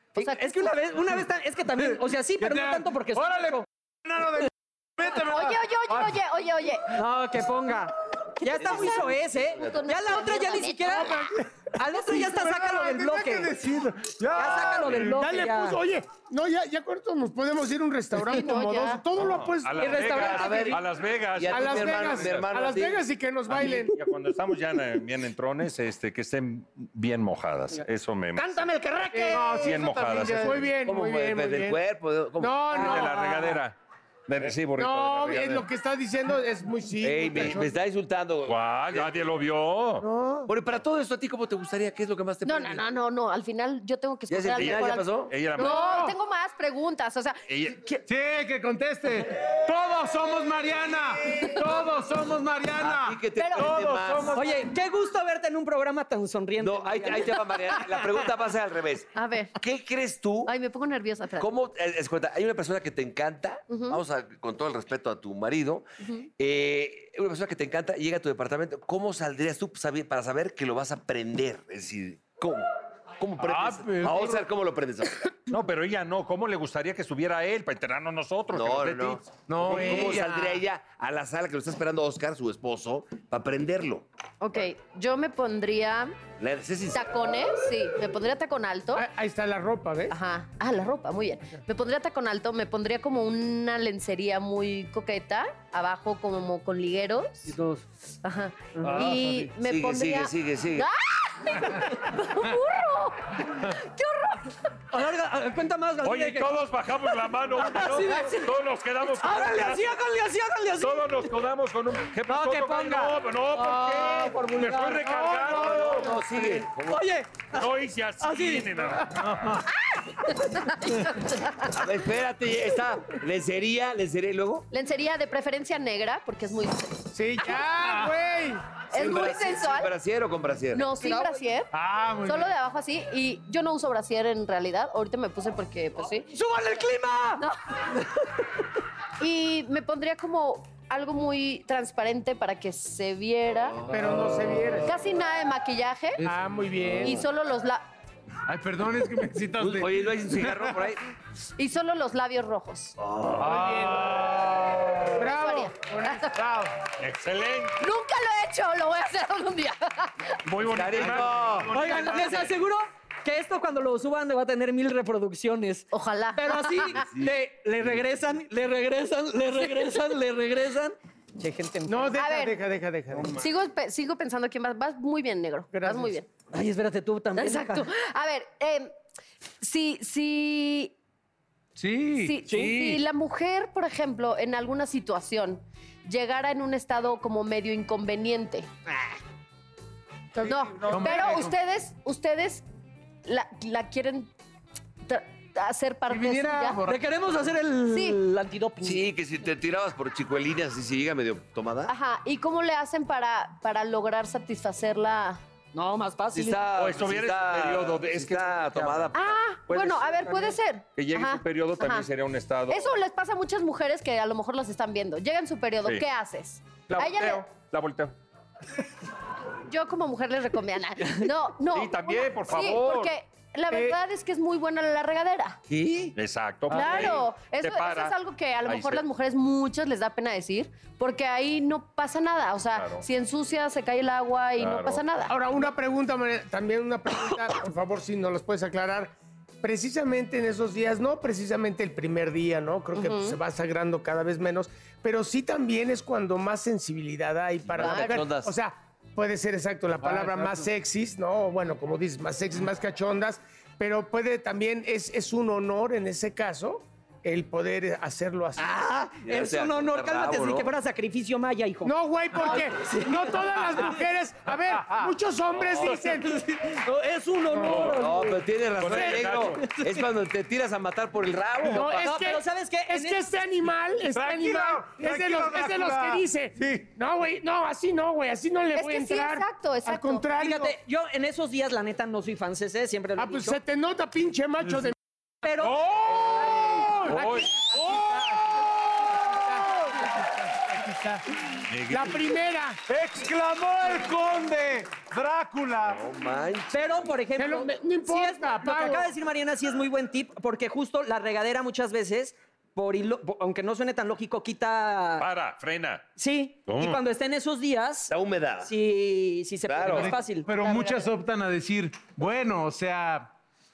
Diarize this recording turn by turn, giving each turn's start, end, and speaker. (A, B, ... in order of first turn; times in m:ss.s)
0:00.1-0:00.8 A
0:00.2-0:03.6 B
0:01.8-0:06.2 C
0:05.2-0:06.9 A
0:06.9-0:11.2 B
0:08.5-0:11.2 A
0:08.6-0:09.7 D
0:11.7-0:13.5 B
0:12.1-0:15.0 C
0:14.3-0:15.8 B
0:14.4-0:20.4 E
0:18.2-0:19.0 A
0:19.2-0:22.4 F
0:19.8-0:20.8 B
0:20.2-0:20.8 D
0:21.3-0:23.0 D
0:21.5-0:24.0 E
0:23.5-0:28.7 F
0:28.4-0:29.6 B
0:29.1-0:29.7 E
0:29.3-0:30.6 C
0:29.5-0:30.7 F
0:30.2-0:31.8 E
0:30.7-0:33.0 D
0:32.4-0:33.4 E
0:32.7-0:33.7 F
0:34.3-0:34.6 D
0:34.4-0:35.6 F
0:34.8-0:37.7 E
0:37.0-0:39.2 D
0:38.4-0:40.0 F
0:40.0-0:40.5 E
0:40.5-0:42.8 D
0:42.4-0:48.0 A
0:44.3-0:45.3 D
0:44.6-0:46.1 F
0:47.5-0:47.8 F
0:48.1-0:54.4 C
0:52.8-0:54.4 D
0:53.4-0:53.7 A
0:54.3-0:57.8 B
0:56.6-1:00.5 D
0:59.1-0:59.5 A
1:00.4-1:01.5 A
1:01.4-1:05.9 D
1:03.7-1:04.0 A
1:06.0-1:06.3 A
1:06.4-1:15.4 D
1:13.4-1:14.5 C
1:15.5-1:19.3 F
1:18.5-1:24.0 D
1:19.5-1:20.6 C
1:24.4-1:26.2 A
1:26.4-1:27.1 D
1:26.9-1:29.0 A
1:28.9-1:30.2 E
1:30.1-1:37.5 A
1:37.5-1:37.8 B
1:38.2-1:44.7 A
1:38.8-1:39.5 C
1:39.6-1:40.9 D
1:44.9-1:46.6 B
1:46.0-1:49.9 F
1:47.5-1:48.5 B
1:49.2-1:51.3 B
1:50.8-1:56.1 F
1:52.3-1:55.6 B
1:55.5-1:56.0 E
1:55.5-1:57.0 D
1:56.8-1:57.6 B
1:57.5-1:59.6 F
1:58.2-1:59.0 B
1:59.1-1:59.6 C
2:00.9-2:01.7 A
2:01.7-2:04.7 D
2:04.7-2:07.0 A
2:07.1-2:08.6 E
2:07.8-2:08.1 C
2:08.9-2:09.9 A
2:08.9-2:10.9 D
2:10.7-2:11.7 A
2:11.7-2:12.5 C
2:12.2-2:16.3 A
2:16.3-2:17.4 B
2:19.2-2:23.8 A
2:23.8-2:24.3 D
2:23.9-2:24.9 E
2:24.8-2:26.2 A
2:26.2-2:27.1 C
2:26.2-2:27.2 E
2:27.0-2:27.8 A
2:28.5-2:30.8 C
2:29.6-2:31.0 D
2:31.6-2:33.0 A
2:33.0-2:34.0 D
2:33.4-2:35.3 C
2:35.2-2:36.4 E
2:35.2-2:36.3 A
2:36.3-2:36.7 C
2:37.0-2:37.8 F
2:37.8-2:40.2 A
2:40.4-2:42.4 F
2:40.6-2:42.4 D
2:41.7-2:52.2 B
2:45.9-2:47.0 A
2:47.0-2:47.3 D
2:51.8-2:53.4 E
2:52.2-2:52.6 A
2:53.3-2:56.3 A
2:55.7-2:56.2 E
2:56.5-2:57.9 B
2:57.4-2:58.9 A
2:59.6-3:00.9 A
3:01.8-3:03.0 C
3:02.2-3:08.7 A
3:10.4-3:11.4 E
3:10.4-3:12.6 A
3:10.8-3:11.5 C
3:13.2-3:14.3 A
3:15.0-3:16.8 A
3:16.1-3:17.0 C
3:16.8-3:19.0 B
3:17.9-3:18.2 A
3:18.8-3:21.9 D
3:21.9-3:25.4 A
3:25.7-3:26.6 B
3:26.3-3:29.3 D
3:26.7-3:29.2 F
3:29.1-3:32.1 A
3:29.7-3:33.0 F
3:32.7-3:37.5 A
3:36.9-3:38.1 F
3:39.6-3:45.6 A
3:41.7-3:43.1 F
3:45.7-3:46.1 D
3:46.1-3:49.0 F
3:46.7-3:55.3 A
3:46.7-3:47.1 C
3:52.7-3:53.0 F
3:54.6-3:55.0 F
3:55.3-4:18.7 E
4:02.9-4:03.4 A
4:07.6-4:08.5 D
4:07.8-4:08.2 A
4:10.0-4:10.7 C
4:18.6-4:23.1 B
4:19.2-4:20.7 D
4:21.8-4:26.4 E
4:25.6-4:26.0 D
4:26.5-4:28.4 B
4:27.5-4:27.8 E
4:27.6-4:28.0 F
4:27.7-4:32.0 D
4:28.8-4:29.7 F
4:31.7-4:40.8 E
4:31.7-4:33.3 B
4:34.1-4:36.9 C
4:38.7-4:40.2 A
4:40.4-4:43.6 B
4:43.2-4:45.0 E
4:45.4-4:45.8 B
4:45.6-4:48.3 C
4:46.5-4:48.6 E
4:47.1-4:47.6 F
4:49.2-4:51.2 E
4:51.7-4:52.2 F
4:51.9-4:52.8 E
4:52.9-4:56.0 C
4:55.8-4:57.1 D
4:56.7-5:05.2 B
4:57.4-4:59.1 E
5:05.2-5:06.0 F
5:06.2-5:11.0 B
5:06.7-5:07.0 F
5:08.1-5:08.7 D
5:09.6-5:10.2 D
5:09.8-5:13.3 C